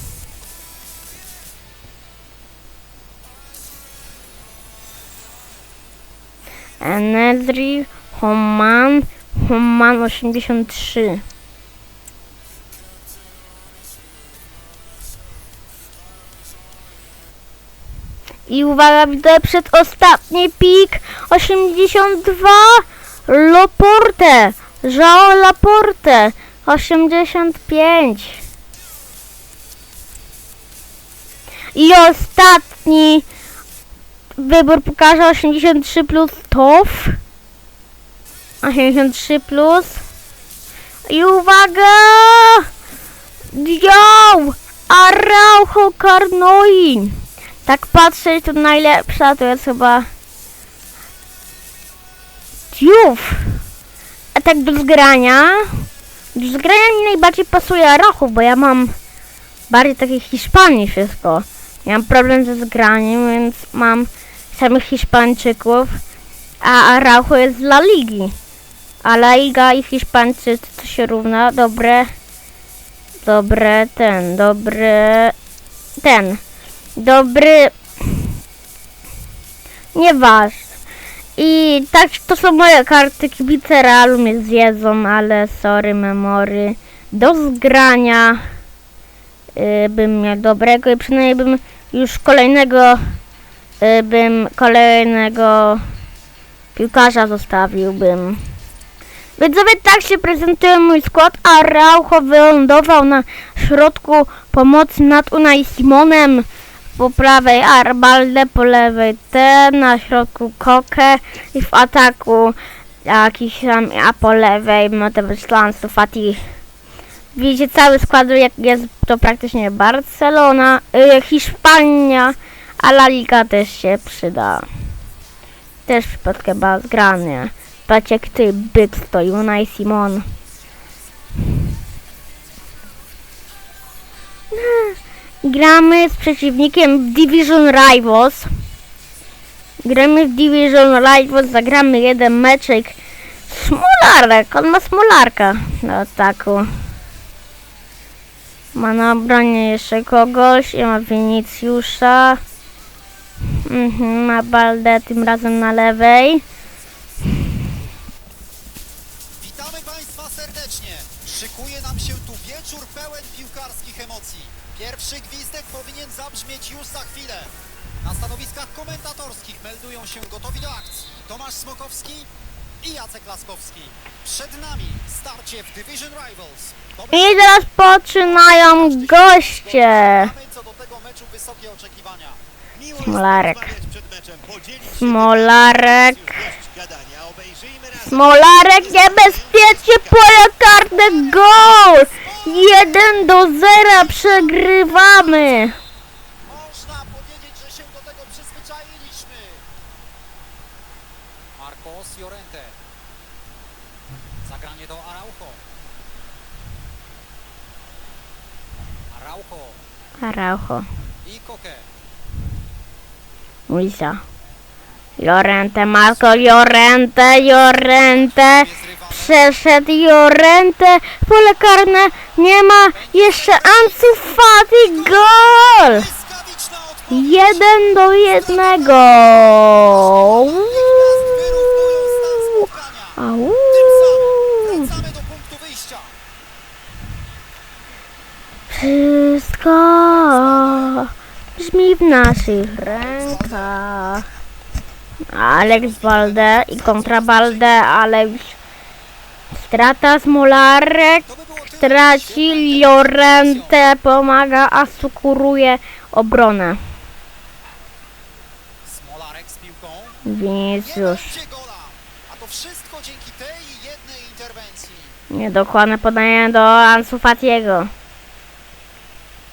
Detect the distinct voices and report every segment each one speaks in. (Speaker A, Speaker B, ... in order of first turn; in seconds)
Speaker A: 6.8-11.2, 18.5-28.4, 31.7-33.2, 34.4-37.2, 38.6-40.0, 41.1-42.7, 43.5-50.1, 52.7-53.6, 54.3-58.9, 59.7-66.0, 66.6-68.3, 69.0-72.1, 73.2-75.3, 76.0-76.4, 77.0-78.3, 79.9-80.7, 81.4-88.4, 89.5-93.2, 93.8-95.8, 96.7-98.4, 99.4-116.5, 117.3-124.7, 125.8-130.3, 134.5-138.5, 139.8-143.0, 143.5-146.8, 148.7-152.4, 153.5-156.4, 177.1-180.3, 183.0-183.7, 184.9-186.4, 188.0-195.8, 210.2-210.8, 213.7-214.2, 215.2-226.0, 227.1-231.0, 232.6-234.9, 238.7-244.2, 245.3-248.6, 249.6-251.2, 251.8-256.8, 260.2-261.3, 265.3-267.9
Speaker B: 159.4-172.3, 172.8-182.4, 190.9-195.7, 196.4-199.7, 201.6-202.8, 204.4-205.6, 209.1-209.8, 211.2-211.9, 216.0-216.7, 217.2-219.5, 222.9-233.2, 233.7-236.2, 240.0-240.9, 242.5-243.9, 245.5-247.8, 251.2-254.0, 258.8-260.2, 260.8-265.2
Speaker C: 182.7-190.5